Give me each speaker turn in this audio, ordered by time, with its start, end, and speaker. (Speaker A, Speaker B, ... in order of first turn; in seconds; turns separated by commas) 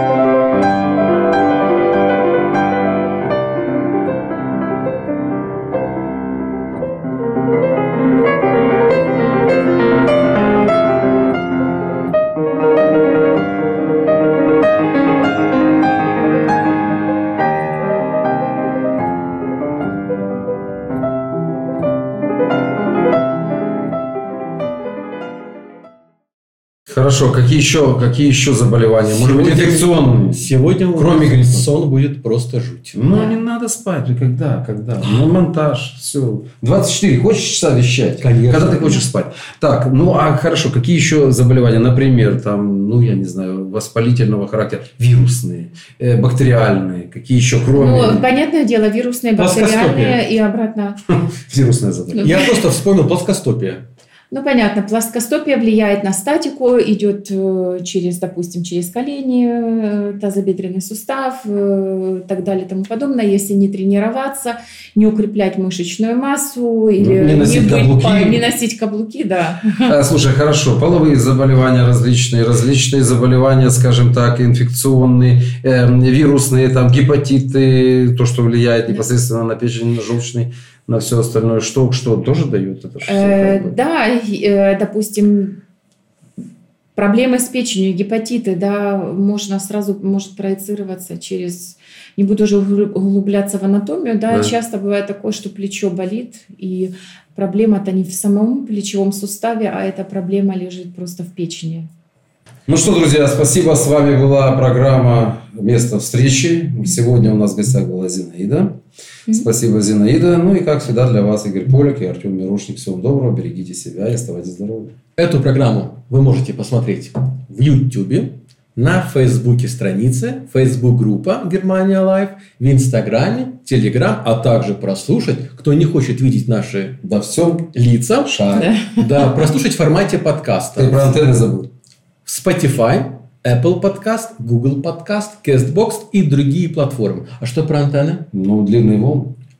Speaker A: 26.9-31.7, Speaker B: 29.0-33.0, Speaker A: 32.9-48.3, Speaker C: 33.1-33.4, Speaker B: 38.2-39.0, Speaker C: 47.7-51.0, Speaker B: 49.4-50.2, Speaker A: 51.1-52.5, Speaker C: 52.1-52.6, Speaker B: 52.2-53.8, Speaker C: 54.3-69.9, Speaker A: 67.0-68.4, Speaker A: 69.8-83.8, Speaker C: 83.0-85.6, Speaker C: 87.0-101.9, Speaker A: 102.7-114.9, Speaker B: 115.2-127.0, Speaker A: 127.0-128.7, Speaker B: 127.7-131.1, Speaker C: 128.6-129.5, Speaker A: 130.8-131.7, Speaker B: 132.2-138.3, Speaker A: 138.3-139.3